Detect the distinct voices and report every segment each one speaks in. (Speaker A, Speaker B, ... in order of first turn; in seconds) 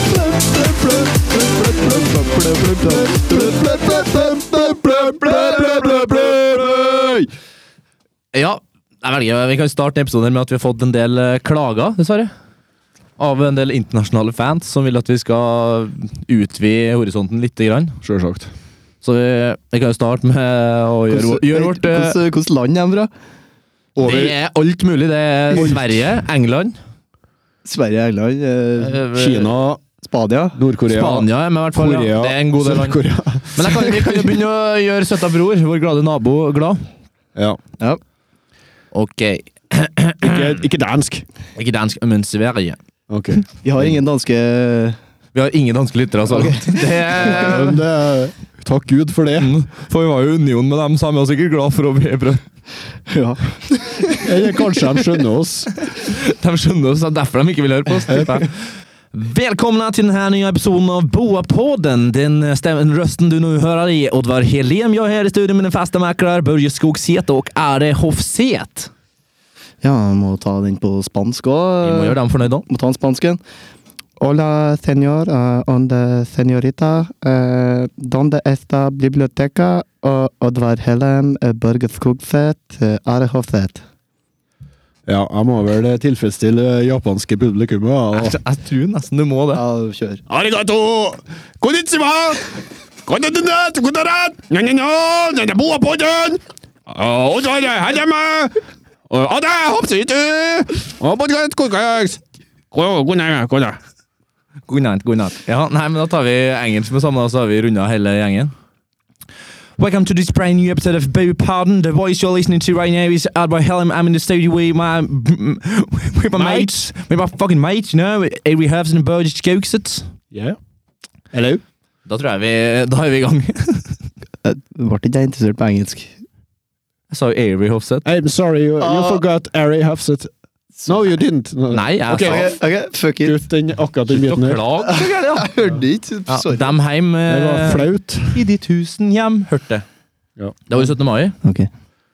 Speaker A: 0.8-2.1, 2.8-7.2, 18.0-18.5, 23.9-24.3, 25.5-25.8, 29.1-29.8, 30.5-34.3, 40.2-41.2, 43.1-43.9, 47.2-49.5, 54.2-55.7, 58.1-58.4, 85.1-88.4, 90.3-92.5, 93.0-103.8, 116.3-116.7, 120.3-120.6, 121.3-121.6, 128.0-130.3, 130.8-132.6, 133.2-134.6, 137.3-138.4
Speaker B: 1.7-5.5, 21.1-23.1, 27.6-29.0, 30.0-30.6, 43.6-45.0, 46.3-46.8, 53.1-54.3, 69.8-73.4, 74.2-83.8, 89.5-90.2, 124.4-126.2, 128.8-129.2, 132.2-133.4, 134.8-136.7, 141.4-141.7
Speaker C: 5.4-6.0, 8.3-12.3, 13.2-18.0, 19.0-22.2, 24.0-26.8, 28.9-29.5, 30.9-33.0, 33.5-36.9, 38.9-40.6, 41.5-42.8, 45.3-47.8, 49.4-52.5, 56.0-58.6, 59.1-68.9, 71.8-72.7, 88.1-89.6, 104.7-108.5, 109.8-120.1, 122.1-124.0, 127.1-128.1, 131.7-132.5, 134.1-135.5, 136.3-139.8, 140.7-141.3